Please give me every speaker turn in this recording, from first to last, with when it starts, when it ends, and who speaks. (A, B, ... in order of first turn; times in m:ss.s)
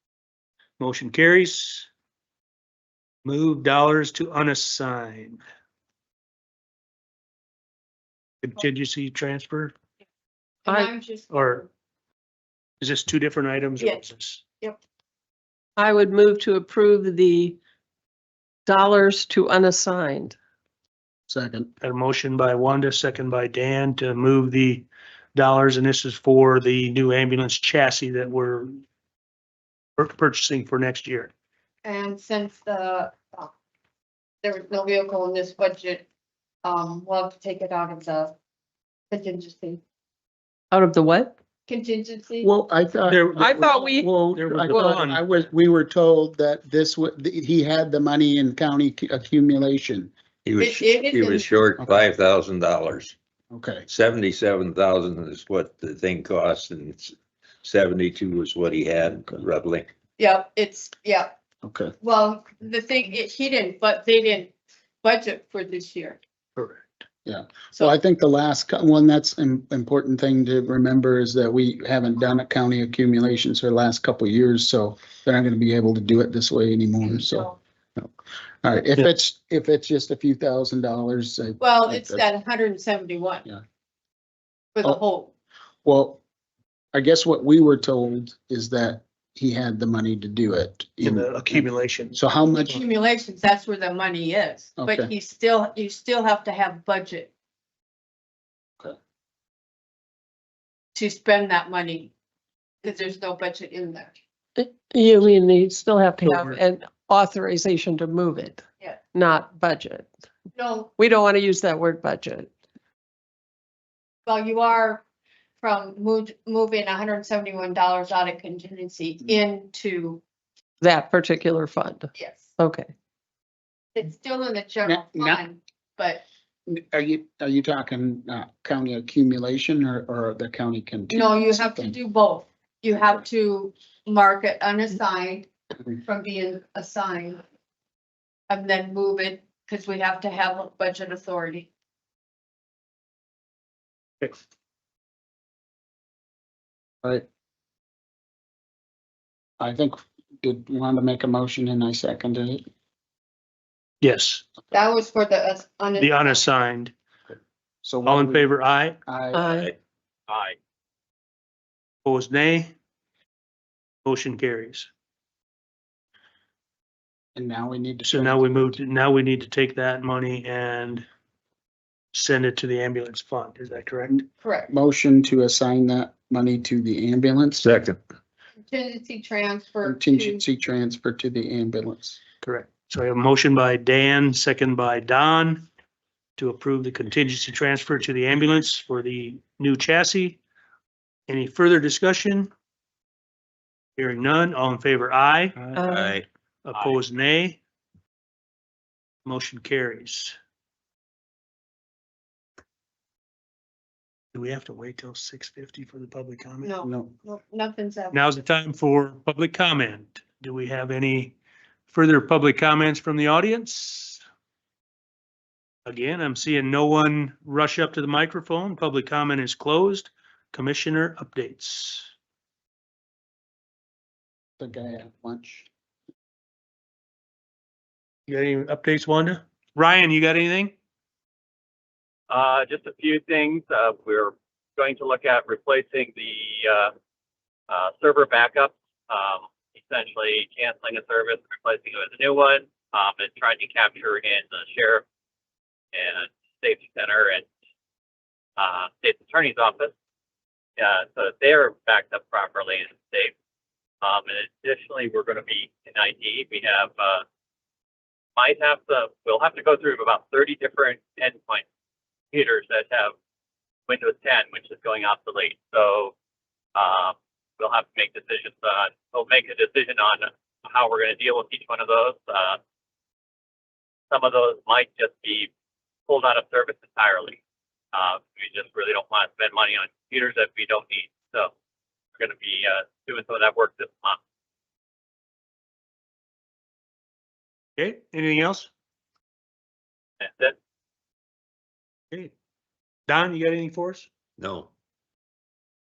0:00.8-0:01.9 A
0:03.2-0:05.4 A
0:08.4-0:09.7 A
0:10.6-0:11.7 B
0:10.6-0:10.9 C
0:11.3-0:11.6 A
0:12.8-0:14.4 A
0:13.8-0:14.0 B
0:15.8-0:17.6 C
0:18.6-0:20.3 C
0:21.3-0:21.7 D
0:21.8-0:28.8 A
0:30.0-0:31.3 A
0:31.8-0:33.5 B
0:34.4-0:36.0 B
0:36.6-0:38.4 B
0:39.1-0:39.8 B
0:40.7-0:41.3 C
0:41.7-0:42.5 B
0:42.4-0:50.1 D
0:43.1-0:43.6 A
0:43.4-0:44.2 C
0:44.2-0:45.2 A
0:50.4-0:53.1 E
0:50.6-0:51.5 B
0:53.5-0:53.9 D
0:53.9-0:59.9 E
1:00.2-1:01.3 B
1:01.6-1:01.9 D
1:02.0-1:04.5 B
1:05.0-1:06.2 B
1:06.6-1:07.0 A
1:07.2-1:18.1 D
1:17.1-1:17.6 B
1:18.6-1:22.2 D
1:21.6-1:23.4 B
1:24.7-1:25.3 B
1:25.8-1:26.2 D
1:26.9-1:32.8 D
1:31.0-1:32.8 A
1:32.7-1:37.3 B
1:34.8-1:35.1 D
1:40.9-1:42.1 B
1:42.8-1:44.2 B
1:44.6-1:48.6 C
1:46.2-1:46.6 A
1:49.1-1:50.1 C
1:50.5-1:50.9 B
1:51.0-1:52.5 C
1:54.2-1:55.0 B
1:55.6-2:00.2 B
2:00.8-2:02.9 C
2:02.1-2:02.6 B
2:03.9-2:06.2 B
2:04.8-2:05.4 D
2:06.7-2:11.9 D
2:11.1-2:15.5 B
2:16.0-2:17.4 B
2:18.5-2:21.7 B
2:29.6-2:32.6 D
2:34.0-2:34.4 A
2:34.7-2:36.4 B
2:36.0-2:36.9 A
2:37.8-2:38.5 D
2:38.0-2:39.0 A
2:39.1-2:39.5 D
2:39.3-2:39.7 C
2:39.5-2:39.7 E
2:40.3-2:40.6 F
2:42.0-2:42.7 A
2:44.0-2:44.9 A
2:47.3-2:48.8 D
2:48.0-2:51.1 A
2:52.1-2:54.3 A
2:54.4-2:54.7 B
2:54.7-2:57.6 D
2:57.6-2:58.0 E
2:58.7-3:00.4 B
2:59.8-3:02.2 D
3:02.4-3:05.7 A
3:06.4-3:10.4 A
3:11.3-3:12.5 A
3:14.0-3:15.7 A
3:15.7-3:16.2 C
3:15.8-3:16.2 E
3:16.6-3:17.6 A
3:16.7-3:17.0 F
3:19.2-3:20.4 A
3:24.3-3:26.8 A
3:26.6-3:28.2 B
3:26.8-3:27.1 D
3:28.1-3:31.4 A
3:31.9-3:34.2 A
3:35.8-3:42.1 A
3:44.6-3:45.7 D
3:48.3-3:50.7 A
3:52.3-3:56.9 F
3:57.7-4:05.0 F
4:05.9-4:07.4 F
4:08.6-4:09.9 F
4:10.8-4:13.3 F
4:14.0-4:17.2 F
4:18.4-4:21.6 F
4:22.3-4:23.1 F
4:23.9-4:26.1 F
4:26.7-4:32.6 F
4:34.1-4:35.5 F
4:36.1-4:37.4 F
4:37.9-4:41.5 F
4:42.2-4:44.2 F
4:47.8-4:48.7 A
4:50.2-4:50.5 F
4:53.1-4:54.1 A
4:54.4-4:54.7 E